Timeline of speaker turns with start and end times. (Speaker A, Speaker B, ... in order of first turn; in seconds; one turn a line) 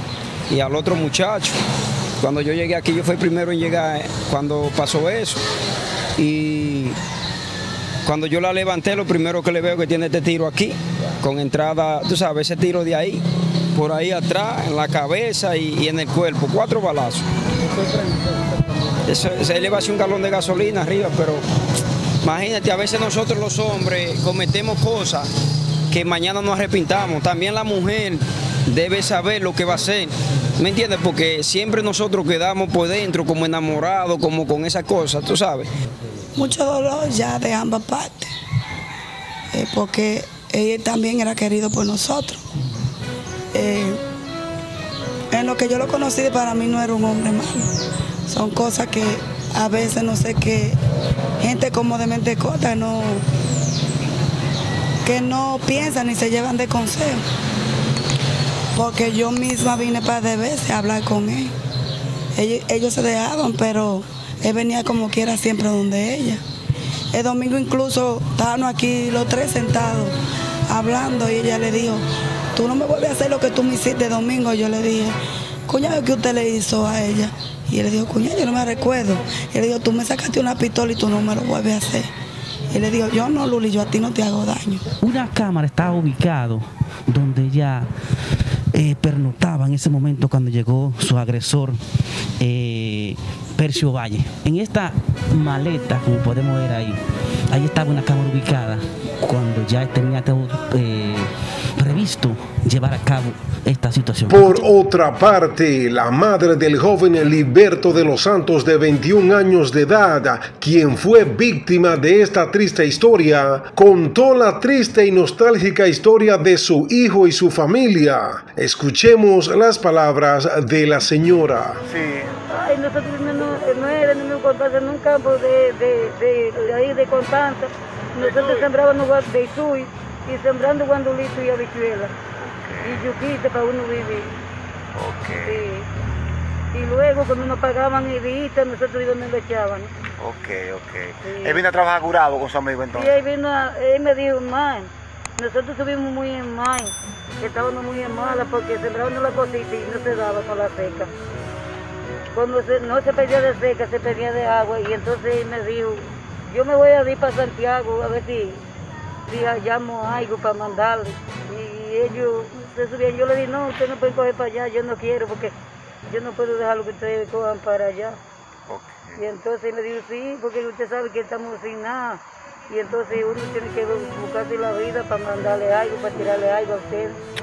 Speaker A: 0.5-1.6
Speaker A: 2.2-5.4
Speaker A: 6.2-7.0
Speaker A: 8.0-17.3
Speaker A: 19.0-21.4
Speaker A: 22.2-25.3
Speaker A: 25.9-35.7
Speaker B: 36.4-38.3
Speaker B: 39.5-42.4
Speaker B: 43.5-44.0
Speaker B: 45.3-47.7
Speaker B: 48.3-50.8
Speaker B: 51.4-53.2
Speaker B: 55.0-57.2
Speaker B: 58.8-61.5
Speaker B: 62.4-66.4
Speaker B: 67.1-70.1
Speaker B: 70.7-72.0
Speaker B: 72.5-75.2
Speaker B: 75.7-82.1
Speaker B: 82.7-84.9
Speaker C: 85.0-87.9
Speaker C: 88.7-91.8
Speaker C: 92.4-97.0
Speaker C: 97.5-104.7
Speaker D: 104.3-121.8
Speaker E: 121.9-122.4
Speaker F: 122.5-132.2
Speaker E: 132.4-133.1
Speaker F: 132.8-134.3
Speaker E: 134.9-135.6
Speaker F: 135.4-135.9
Speaker F: 136.7-139.9
Speaker E: 140.2-143.2
Speaker F: 141.2-141.6
Speaker F: 142.9-151.1
Speaker F: 152.3-158.6
Speaker F: 159.3-165.5
Speaker F: 166.1-168.2
Speaker E: 168.7-169.2
Speaker F: 169.2-177.2